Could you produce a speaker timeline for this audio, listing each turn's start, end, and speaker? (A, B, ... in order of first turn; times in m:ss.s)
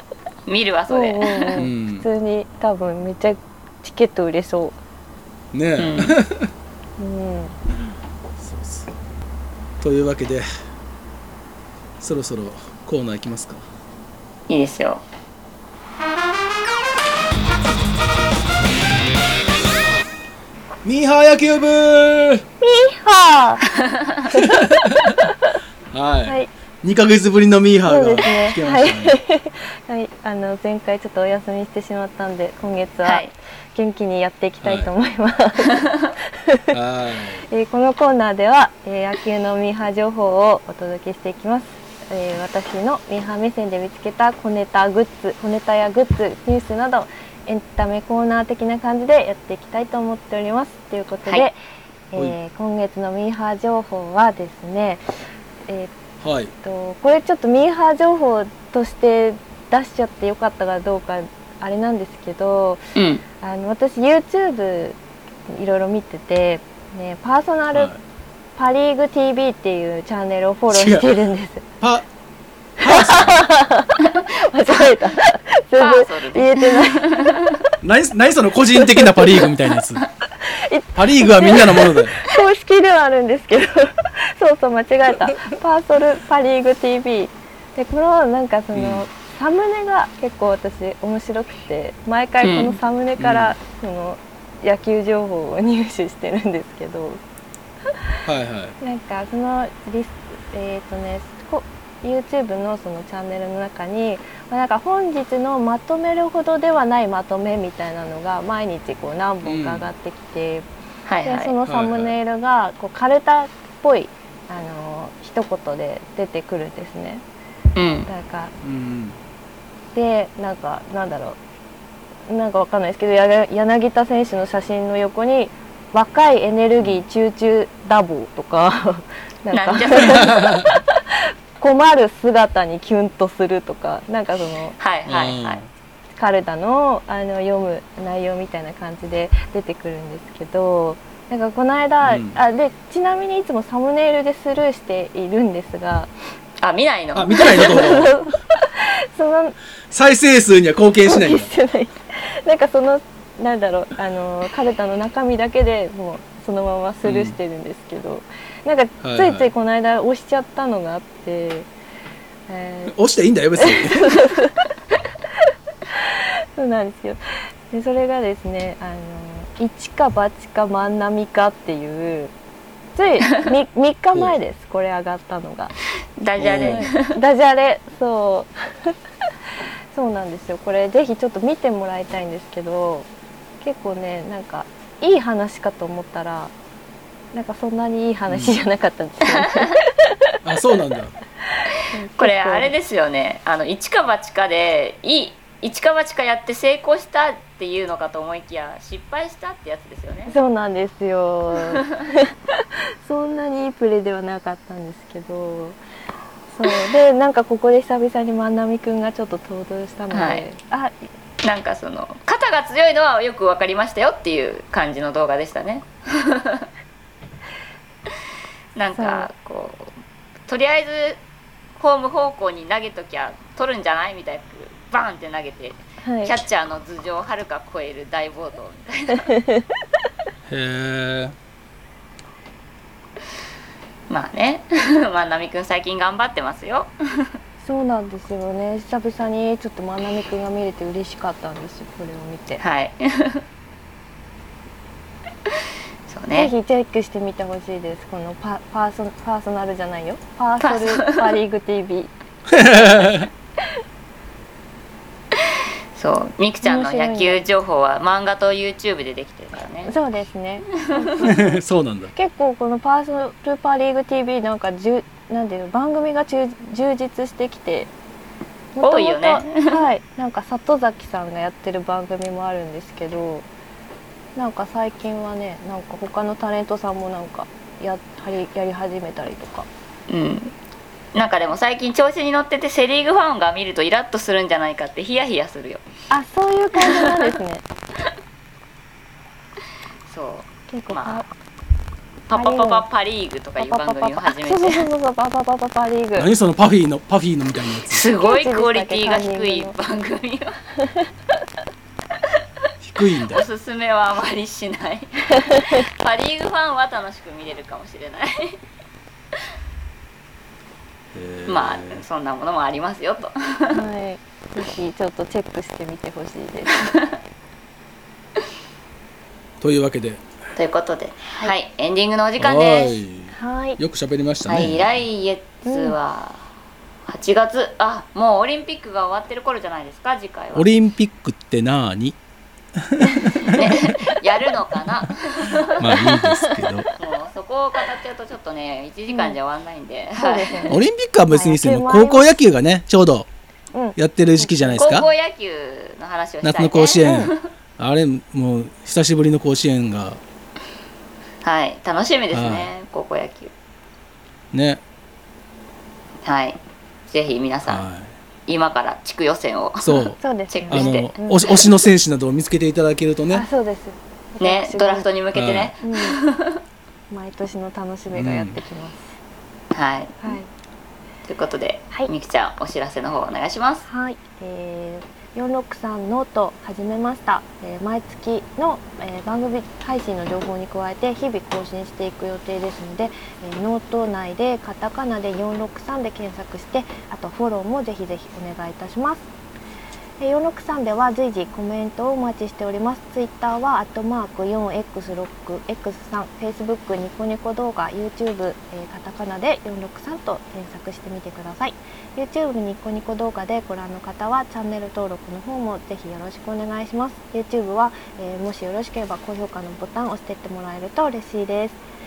0:00.5-0:01.7 A
0:00.9-0:04.8 B
0:01.6-0:02.1 C
0:05.5-0:06.5 C
0:05.8-0:06.2 A
0:07.0-0:07.6 B
0:08.4-0:08.9 C
0:09.8-0:10.5 C
0:12.0-0:13.6 C
0:14.5-0:15.0 A
0:20.8-0:22.4 C
0:22.6-0:23.6 B
0:23.8-0:24.2 A
0:24.3-0:24.7 B
0:24.3-0:25.3 C
0:25.9-0:29.2 C
0:27.9-0:35.8 B
0:33.0-0:33.3 A
0:34.6-0:34.9 C
0:36.4-0:36.7 B
0:36.7-0:37.4 C
0:37.5-0:51.6 B
0:52.1-0:55.0 B
0:55.7-0:56.0 B
0:56.2-0:56.5 C
0:56.6-1:05.0 B
1:03.0-1:03.2 A
1:05.5-1:07.9 B
1:08.6-1:11.6 B
1:10.7-1:11.1 C
1:11.8-1:12.1 C
1:12.8-1:13.5 C
1:12.8-1:17.3 B
1:15.8-1:17.6 A
1:17.8-1:20.0 C
1:18.7-1:19.5 B
1:20.4-1:37.2 B
1:21.0-1:22.2 C
1:28.7-1:29.1 C
1:32.4-1:32.8 A
1:33.2-1:33.6 C
1:38.3-1:38.8 C
1:38.8-1:50.7 B
1:49.4-1:49.9 C
1:51.1-1:51.5 A
1:51.2-1:57.2 B
1:51.6-1:52.2 C
1:57.8-1:58.1 A
1:58.1-1:58.5 B
1:58.6-1:59.2 C
2:00.0-2:01.4 B
2:02.3-2:14.8 B
2:09.5-2:10.4 A
2:10.1-2:10.8 C
2:14.8-2:15.6 A
2:15.1-2:15.7 C
2:16.2-2:26.1 B
2:22.0-2:22.4 C
2:26.6-2:27.9 A
2:27.2-2:28.1 C
2:27.4-2:29.6 B
2:29.9-2:31.5 C
2:31.0-2:41.7 B
2:37.0-2:37.4 C
2:39.0-2:39.5 C
2:42.5-2:42.9 B
2:42.9-2:44.3 C
2:43.6-2:44.6 B
2:45.9-2:52.3 B
2:53.0-2:55.7 B
2:56.2-2:57.2 A
2:56.4-2:56.9 C
2:56.6-2:59.0 B
2:59.9-3:03.1 B
3:03.6-3:06.5 B
3:07.3-3:10.2 B
3:08.3-3:08.6 C
3:09.3-3:09.7 A
3:10.4-3:11.1 C
3:11.6-3:12.7 B
3:12.2-3:20.3 A
3:20.3-3:22.3 B
3:23.0-3:25.8 B
3:26.5-3:30.9 B
3:30.1-3:30.4 A
3:31.4-3:36.7 A
3:38.8-3:40.0 A
3:39.0-3:39.3 B
3:40.5-3:41.2 A
3:41.8-3:49.3 A
3:46.0-3:46.4 B
3:49.2-3:49.7 B
3:50.5-3:51.4 C
3:54.1-3:57.4 A
3:57.6-4:02.6 B
4:02.6-4:03.4 A
4:06.1-4:06.5 A
4:06.3-4:12.1 B
4:10.6-4:11.3 A
4:12.5-4:13.3 C
4:12.6-4:12.9 B
4:15.3-4:19.9 A
4:16.6-4:17.4 B
4:19.9-4:21.6 B
4:21.2-4:22.1 C
4:22.1-4:27.9 B
4:28.8-4:33.5 B
4:28.8-4:29.8 A
4:34.4-4:39.7 B
4:40.1-4:40.5 A
4:41.1-4:45.8 A
4:46.1-4:47.6 B
4:46.8-4:47.3 A
4:50.1-4:51.2 A
4:50.7-4:51.3 B
4:52.3-4:54.8 A
4:52.3-4:52.8 B
4:53.6-4:56.3 B
4:56.2-4:58.0 C
4:57.9-5:00.6 A
4:58.2-4:59.8 B
5:02.8-5:03.4 C
5:03.2-5:08.6 A
5:05.4-5:05.8 B
5:11.1-5:12.0 C
5:11.5-5:13.8 A
5:13.7-5:16.8 B
5:16.8-5:17.1 A
5:19.6-5:20.2 C
5:20.6-5:23.0 A
5:22.4-5:24.8 C
5:23.3-5:23.8 B
5:24.5-5:26.4 A
5:25.6-5:26.0 B
5:27.1-5:30.7 A
5:30.6-5:32.2 C
5:32.8-5:33.9 C
5:33.0-5:33.7 B
5:33.4-5:35.9 A
5:35.8-5:36.9 C
5:36.0-5:36.9 B
5:37.0-5:40.8 A
5:39.1-5:39.4 B
5:40.2-5:42.4 B
5:40.7-5:43.3 C
5:43.7-5:44.8 B
5:44.0-5:45.1 C
5:44.8-5:47.5 A
5:46.4-5:50.2 C
5:47.0-5:47.3 B
5:51.4-5:53.5 A
5:52.3-5:52.7 C
5:54.5-5:54.8 C
5:56.2-5:57.8 A
5:57.7-5:58.1 C
5:58.5-6:01.7 A
5:59.8-6:00.2 C
6:00.2-6:01.4 B
6:00.7-6:03.5 C
6:03.3-6:05.1 B
6:04.4-6:06.6 A
6:05.3-6:05.7 C
6:05.8-6:06.2 B
6:07.1-6:09.0 B
6:08.1-6:08.6 C
6:09.7-6:10.4 A
6:10.2-6:10.5 B
6:11.3-6:13.9 A
6:13.9-6:29.3 B
6:30.2-6:51.8 B